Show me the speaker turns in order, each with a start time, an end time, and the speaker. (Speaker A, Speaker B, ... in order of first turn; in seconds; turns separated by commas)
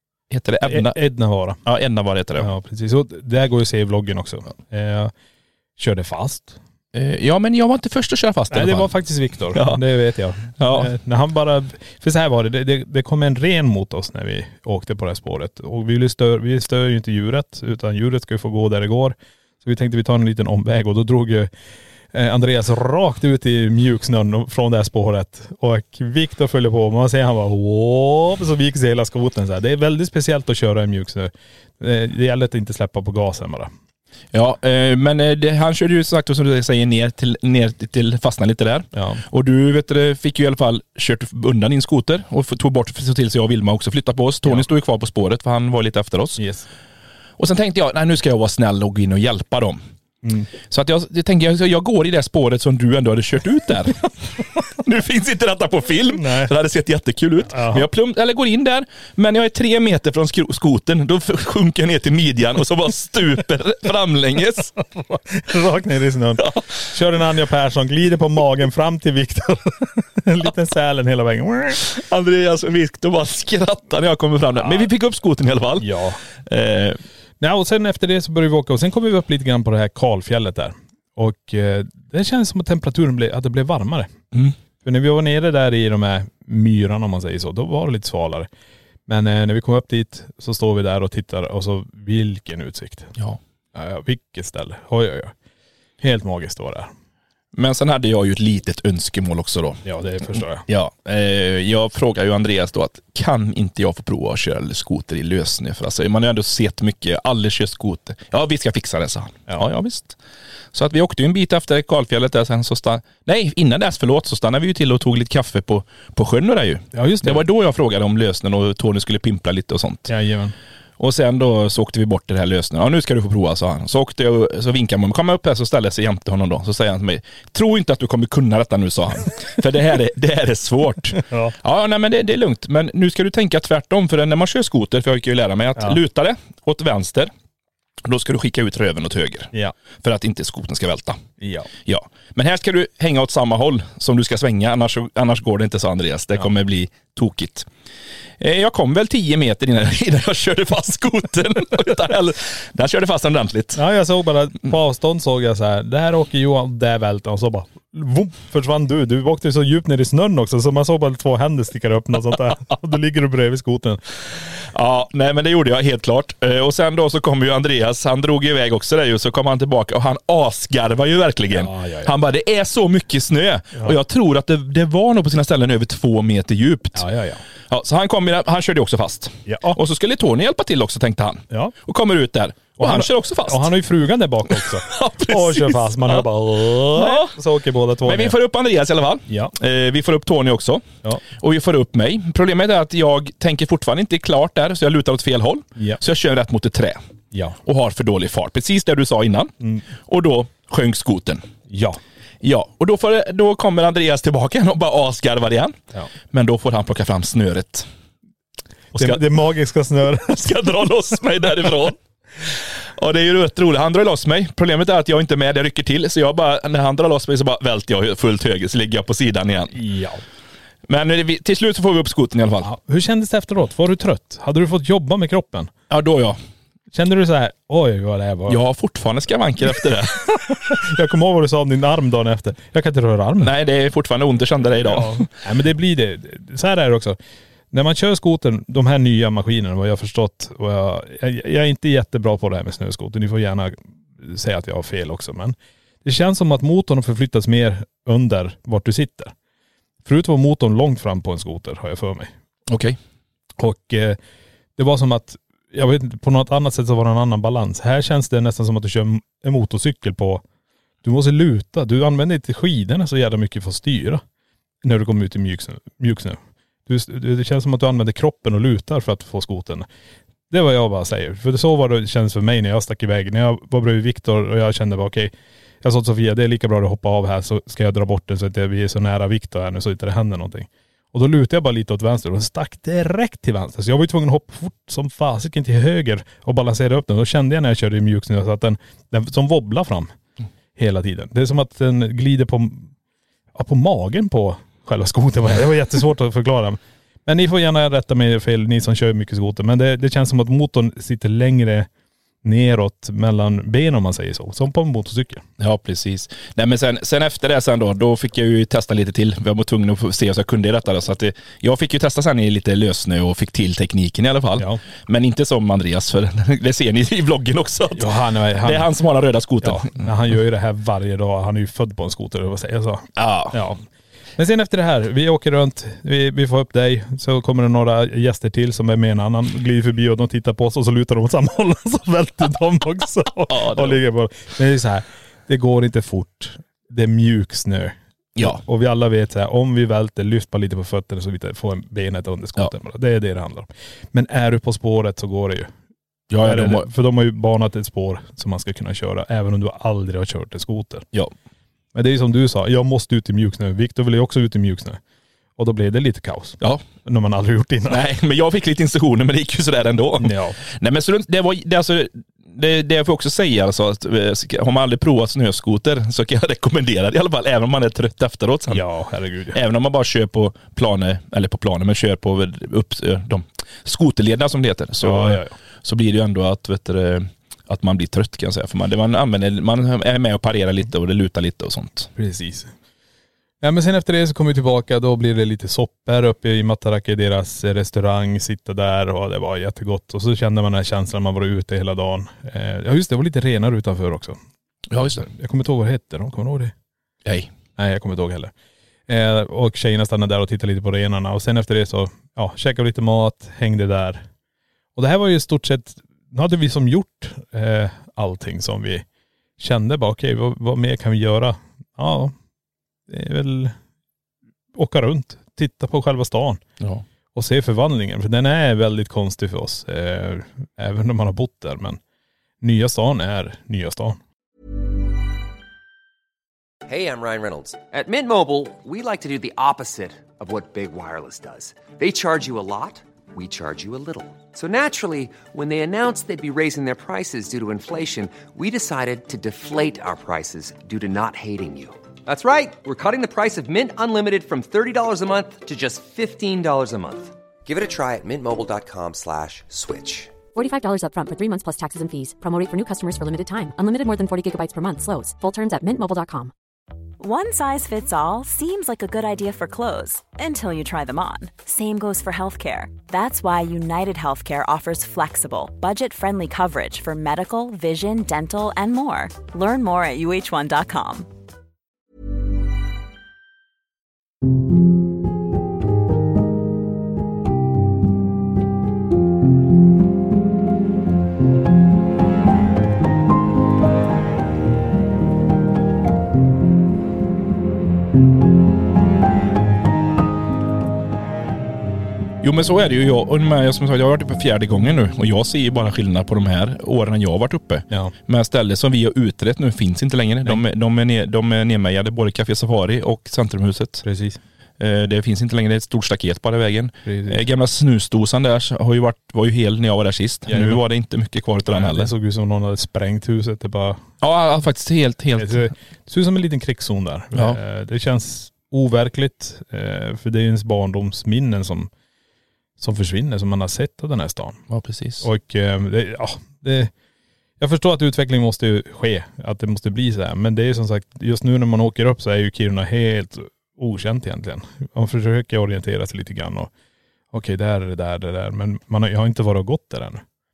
Speaker A: 0.3-1.0, Speaker B: 0.6-1.6, Speaker A: 1.6-2.5, Speaker B: 2.4-5.1, Speaker B: 5.8-6.6, Speaker A: 6.9-8.9, Speaker B: 8.5-21.5, Speaker A: 9.5-9.8, Speaker A: 10.6-10.9, Speaker B: 22.1-33.7, Speaker A: 34.3-46.4, Speaker B: 38.9-39.2, Speaker B: 46.4-46.7, Speaker A: 47.4-49.8, Speaker B: 50.2-50.5, Speaker A: 50.6-54.1, Speaker A: 54.6-64.7, Speaker B: 56.2-56.5, Speaker B: 57.5-57.9, Speaker B: 65.0-71.9, Speaker A: 71.8-75.9, Speaker B: 74.6-74.9, Speaker B: 75.8-76.2, Speaker A: 76.4-77.0, Speaker B: 77.4-84.1, Speaker B: 84.8-88.5, Speaker B: 89.1-93.1, Speaker B: 93.7-95.3, Speaker B: 96.0-96.9, Speaker A: 97.5-99.8, Speaker B: 99.8-100.7, Speaker A: 100.7-110.2, Speaker A: 110.7-120.1, Speaker B: 116.9-117.4, Speaker B: 120.1-120.5, Speaker A: 121.0-137.3, Speaker B: 131.2-131.5, Speaker A: 138.0-141.2, Speaker B: 141.4-141.7, Speaker A: 141.8-147.7, Speaker A: 148.4-153.8, Speaker B: 153.8-164.0, Speaker A: 164.6-177.1, Speaker B: 171.5-172.1, Speaker B: 176.9-177.4, Speaker A: 177.7-183.7, Speaker B: 179.5-179.8, Speaker B: 182.8-188.4, Speaker A: 184.5-187.3, Speaker A: 188.0-197.0, Speaker B: 189.3-189.5, Speaker B: 197.3-197.6, Speaker A: 197.6-201.4, Speaker B: 201.7-202.0, Speaker A: 202.4-205.8, Speaker A: 206.3-207.9, Speaker A: 208.9-209.2, Speaker B: 208.9-210.7, Speaker A: 210.2-219.7, Speaker B: 219.7-220.2, Speaker A: 220.9-222.7, Speaker B: 222.6-225.7, Speaker A: 225.9-226.4, Speaker B: 226.9-228.6, Speaker A: 228.5-230.3, Speaker B: 230.5-233.5, Speaker A: 233.4-235.3, Speaker B: 234.8-237.2, Speaker B: 237.7-249.3, Speaker B: 250.0-252.3, Speaker A: 252.7-253.0, Speaker B: 253.6-254.2, Speaker B: 254.8-260.4, Speaker B: 261.0-264.2, Speaker B: 264.8-269.9, Speaker B: 270.5-275.3, Speaker B: 275.8-290.1, Speaker B: 290.8-292.9, Speaker B: 293.5-301.9, Speaker B: 302.4-305.4, Speaker A: 305.6-320.1, Speaker B: 317.9-318.9, Speaker B: 319.6-323.8, Speaker A: 323.1-323.6, Speaker B: 324.4-345.7, Speaker A: 333.5-334.0, Speaker A: 338.4-338.6, Speaker A: 346.3-346.9, Speaker B: 346.4-351.1, Speaker B: 351.9-355.0, Speaker B: 355.6-358.0, Speaker A: 357.9-368.8, Speaker B: 360.2-360.6, Speaker B: 368.7-369.6, Speaker A: 369.5-382.1, Speaker B: 375.0-375.5, Speaker B: 382.1-382.7, Speaker B: 383.6-394.4, Speaker A: 394.9-395.3, Speaker B: 395.1-396.7, Speaker A: 397.2-397.5, Speaker B: 397.8-398.5, Speaker B: 399.1-404.2, Speaker B: 404.9-409.0, Speaker B: 409.6-412.3, Speaker B: 413.1-413.7, Speaker B: 414.7-416.6, Speaker B: 417.3-422.0, Speaker B: 422.6-424.2, Speaker C: 426.9-450.3, Speaker D: 450.5-456.5, Speaker E: 457.2-471.3, Speaker A: 492.4-504.0, Speaker B: 504.0-504.4, Speaker A: 504.8-512.1, Speaker B: 507.0-507.4, Speaker B: 510.5-510.8, Speaker B: 511.7-514.0, Speaker A: 514.2-515.6, Speaker B: 515.4-521.9, Speaker A: 517.3-517.6, Speaker B: 522.8-524.6, Speaker A: 524.7-525.2, Speaker B: 525.2-526.9, Speaker B: 527.6-536.7, Speaker B: 537.3-540.2